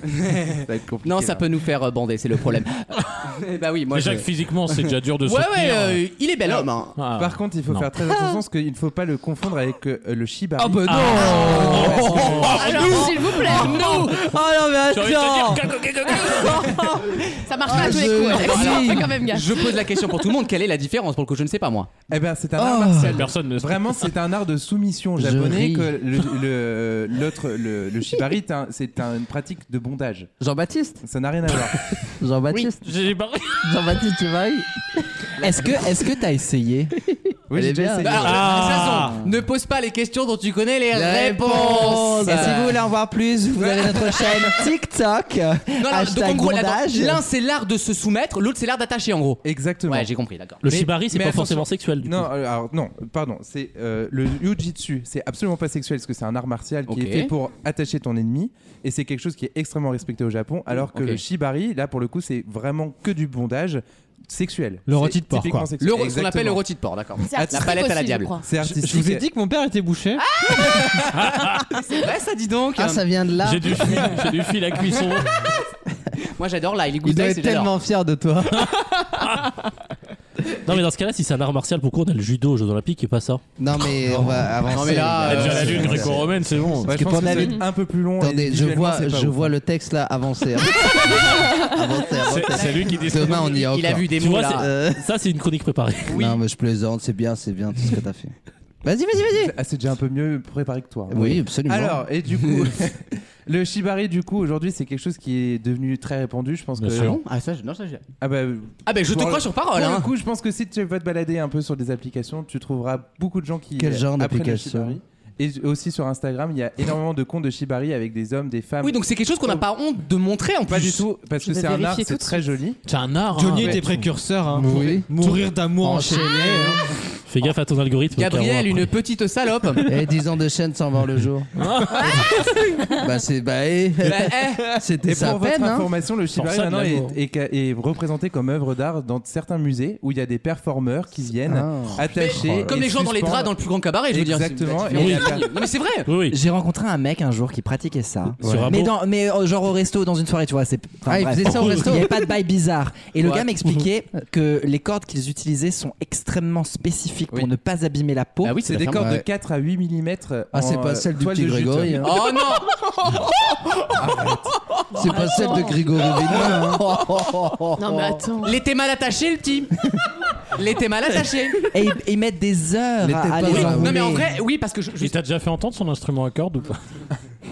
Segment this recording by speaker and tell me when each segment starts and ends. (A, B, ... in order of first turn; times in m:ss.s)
0:00.3-0:07.0 A
0:00.6-0:01.5 B
0:03.9-0:06.0 C
0:06.5-0:12.8 B
0:07.0-0:07.9 C
0:10.6-0:12.9 D
0:10.9-0:14.0 C
0:12.4-0:14.1 E
0:12.6-0:14.2 A
0:13.8-0:15.7 D
0:14.9-0:16.8 C
0:16.2-0:17.0 D
0:16.3-0:16.8 E
0:17.4-0:19.7 E
0:17.6-0:21.9 A
0:17.7-0:19.2 D
0:22.1-0:30.3 B
0:22.6-0:23.2 D
0:23.0-0:24.0 C
0:25.2-0:26.0 D
0:30.4-0:31.0 D
0:31.0-0:31.8 B
0:32.2-0:32.8 D
0:32.5-0:33.7 C
0:33.6-0:34.7 D
0:35.4-0:36.9 F
0:37.5-0:38.6 B
0:37.5-0:38.4 D
0:38.0-0:42.8 A
0:38.2-0:39.2 C
0:40.9-0:42.8 D
0:42.2-0:47.2 F
0:45.8-0:50.6 A
0:49.4-0:50.1 B
0:50.6-0:52.3 G
0:50.7-1:06.6 B
0:56.9-0:57.3 A
1:00.9-1:01.2 A
1:04.9-1:05.7 H
1:05.8-1:08.4 A
1:07.2-1:08.5 E
1:07.3-1:07.7 B
1:08.4-1:09.3 B
1:08.6-1:10.2 H
1:10.3-1:11.2 A
1:10.5-1:10.8 E
1:11.1-1:11.7 C
1:11.7-1:13.0 A
1:12.8-1:14.2 D
1:13.4-1:15.4 C
1:16.4-1:17.7 A
1:17.0-1:18.7 D
1:18.6-1:19.5 C
1:20.6-1:23.4 G
1:23.6-1:26.3 D
1:24.7-1:26.2 A
1:25.2-1:27.2 C
1:26.8-1:27.6 D
1:26.8-1:29.5 B
1:27.3-1:27.6 E
1:28.2-1:35.0 D
1:32.3-1:33.6 C
1:33.2-1:34.7 A
1:34.1-1:36.1 G
1:36.1-1:38.3 D
1:36.1-1:36.4 A
1:38.8-1:39.6 D
1:39.4-1:47.2 B
1:41.1-1:42.0 D
1:46.8-1:47.2 C
1:46.9-1:48.1 A
1:48.2-1:59.6 B
1:48.9-1:50.1 A
1:53.8-1:55.0 D
1:58.8-2:01.1 A
2:00.7-2:02.8 B
2:01.4-2:02.5 E
2:02.9-2:04.1 C
2:03.4-2:06.8 H
2:04.5-2:06.9 D
2:07.3-2:08.9 G
2:08.2-2:09.9 A
2:09.8-2:11.5 D
2:11.6-2:12.8 C
2:11.9-2:12.9 E
2:13.0-2:15.9 D
2:14.0-2:14.8 A
2:15.0-2:23.6 B
2:16.4-2:17.1 C
2:21.5-2:22.7 D
2:22.1-2:26.1 A
2:24.1-2:25.6 B
2:25.0-2:25.2 G
2:26.1-2:26.4 G
2:26.3-2:38.6 F
2:28.4-2:28.7 B
2:28.4-2:28.9 G
2:28.4-2:28.7 A
2:31.1-2:32.2 D
2:33.2-2:33.5 A
2:38.4-2:39.2 A
2:38.6-2:42.1 B
2:40.5-2:42.4 D
2:42.0-2:42.8 A
2:44.0-2:44.5 B
2:44.9-2:48.3 D
2:44.9-2:46.4 E
2:45.2-2:45.7 A
2:47.8-2:48.6 E
2:48.4-2:49.7 A
2:50.5-2:51.6 A
2:51.7-2:54.3 F
2:53.0-2:54.2 D
2:53.5-2:55.2 A
2:55.0-2:56.8 C